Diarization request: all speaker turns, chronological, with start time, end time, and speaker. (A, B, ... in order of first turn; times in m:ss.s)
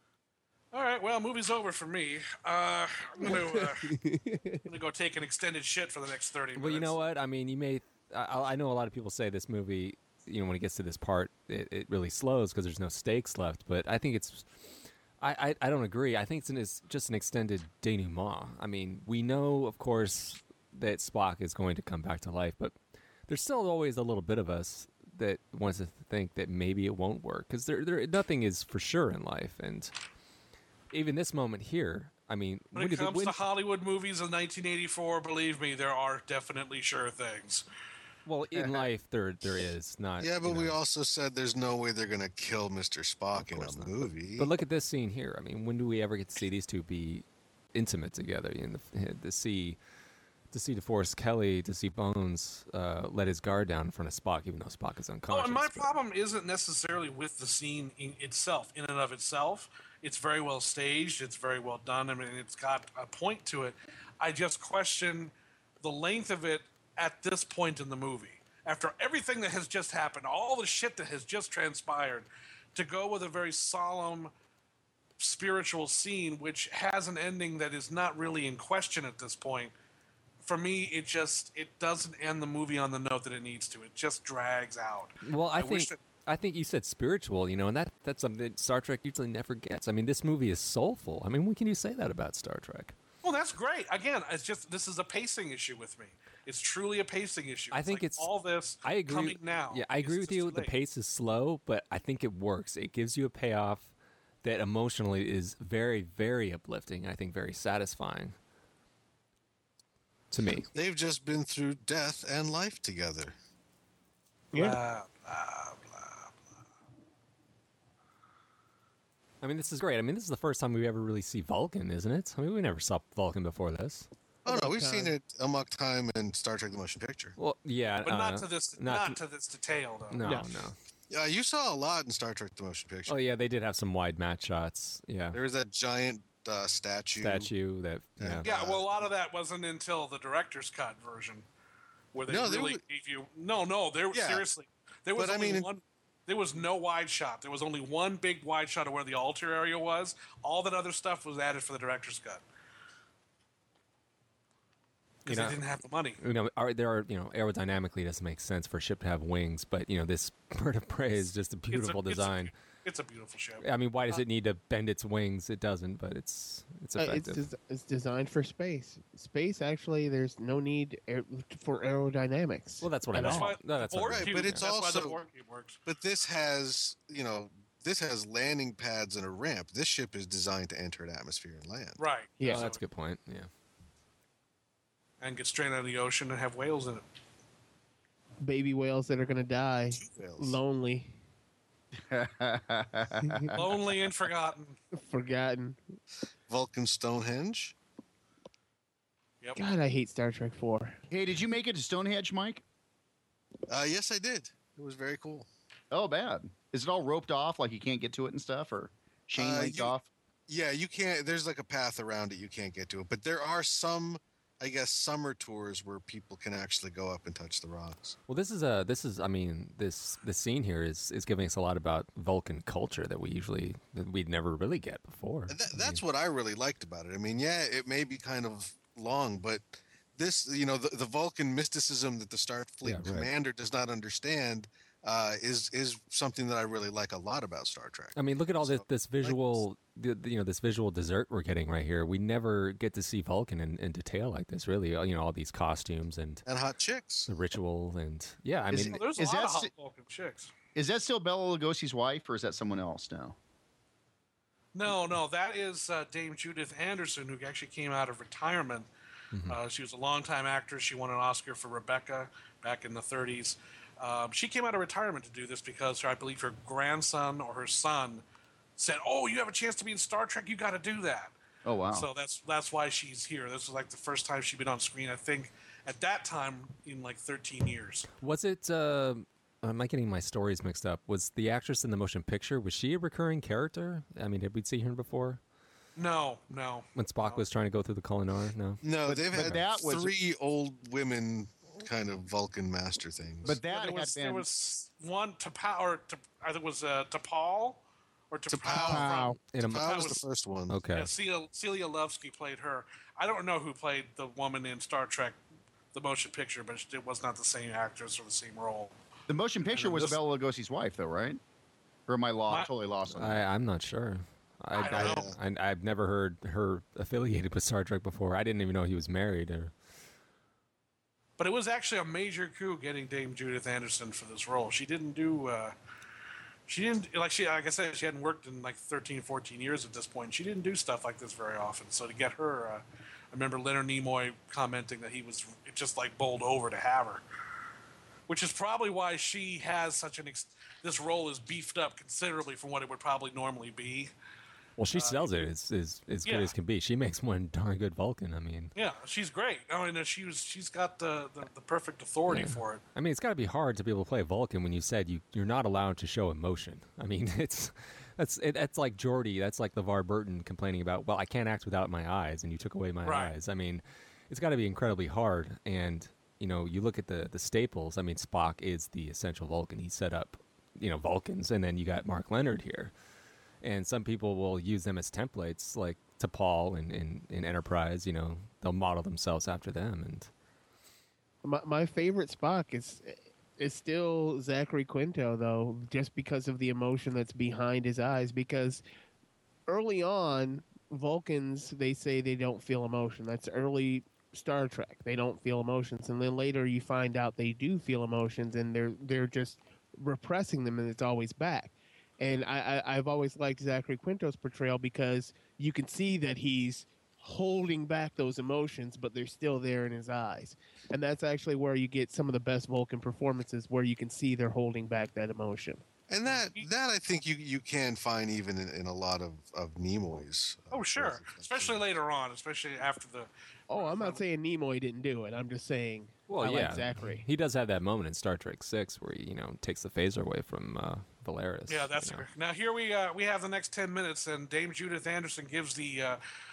0:00.7-0:04.0 A
0:03.2-0:04.6 B
0:04.6-0:07.0 A
0:06.6-0:14.6 C
0:15.2-0:22.8 C
0:23.3-0:29.9 C
0:30.9-0:33.4 C
0:32.7-0:37.6 A
0:38.2-0:40.8 C
0:38.5-0:38.9 D
0:40.2-0:44.5 E
0:43.3-0:49.8 C
0:50.5-0:55.9 C
0:55.3-1:14.3 A
1:15.2-1:19.7 A
1:20.4-1:26.0 A
1:25.2-1:32.9 C
1:33.2-1:40.7 A
1:37.7-1:38.3 C
1:38.8-1:43.9 C
1:44.4-1:48.3 C
1:50.3-1:50.7 C
1:50.7-1:53.3 E
1:54.5-1:54.8 B
1:54.5-1:56.3 A
1:59.4-2:04.1 C
2:04.4-2:05.1 B
2:04.4-2:07.4 E
2:07.4-2:09.2 C
2:08.0-2:10.3 A
2:10.1-2:10.8 C
2:11.1-2:13.2 E
2:13.1-2:15.4 C
2:15.3-2:17.5 E
2:17.2-2:18.4 C
2:18.2-2:19.1 E
2:18.4-2:21.4 A
2:22.1-2:32.4 A
2:22.3-2:22.8 E
2:24.1-2:24.4 E
2:25.2-2:25.7 E
2:35.2-2:36.2 A
2:35.2-2:35.6 C
2:36.2-2:42.5 C
2:41.7-2:43.6 A
2:43.6-2:47.4 C
2:47.0-2:53.5 B
2:52.8-2:54.6 C
2:53.1-2:55.8 A
2:54.1-2:55.2 E
2:55.9-3:02.0 E
3:02.0-3:02.8 A
3:02.4-3:02.6 B
3:02.4-3:03.5 C
3:05.2-3:07.0 A
3:08.4-3:11.2 B
3:09.9-3:10.6 E
3:12.0-3:13.6 D
3:13.2-3:13.6 B
3:13.5-3:14.8 A
3:14.9-3:15.8 B
3:16.5-3:17.7 E
3:19.4-3:19.7 A
3:19.6-3:21.0 B
3:21.1-3:22.6 D
3:23.7-3:25.5 E
3:25.9-3:30.1 D
3:29.4-3:29.9 E
3:30.5-3:38.2 E
3:38.3-3:46.0 C
3:45.5-3:59.6 E
3:52.8-3:53.3 C
3:58.1-4:06.4 C
4:06.4-4:07.3 E
4:07.3-4:09.0 C
4:08.7-4:09.7 D
4:08.9-4:10.5 A
4:10.7-4:13.4 D
4:14.7-4:18.9 A
4:19.3-4:19.6 C
4:19.5-4:28.2 A
4:28.8-4:31.3 A
4:31.6-4:32.1 D
4:31.9-4:38.1 A
4:38.2-4:45.4 C
4:46.0-4:47.4 A
4:46.9-4:48.8 C
4:48.8-4:53.6 E
4:49.0-4:50.1 D
4:49.3-4:49.6 C
4:53.4-4:54.5 D
4:53.6-5:00.2 A
4:58.5-5:00.8 E
4:58.7-4:59.4 D
4:59.4-4:59.9 C
5:00.7-5:01.1 C
5:00.9-5:05.4 A
5:05.9-5:08.9 A
5:09.3-5:11.4 D
5:09.7-5:10.2 A
5:12.1-5:13.4 D
5:13.1-5:19.7 C
5:14.7-5:15.3 A
5:14.9-5:15.4 E
5:21.4-5:25.7 A
5:26.7-5:37.2 A
5:38.3-5:44.1 A
5:44.8-5:48.7 C
5:44.9-5:45.3 A
5:46.2-5:46.5 A
5:48.8-5:52.8 A
5:52.3-6:12.9 C
6:03.0-6:03.3 A
6:13.6-6:20.3 C
6:21.4-6:28.8 B
6:29.7-6:55.8 B
6:56.1-7:01.8 E
6:56.2-6:56.6 A
7:00.7-7:04.2 A
7:03.7-7:07.2 B
7:06.3-7:12.2 C
7:11.7-7:16.2 A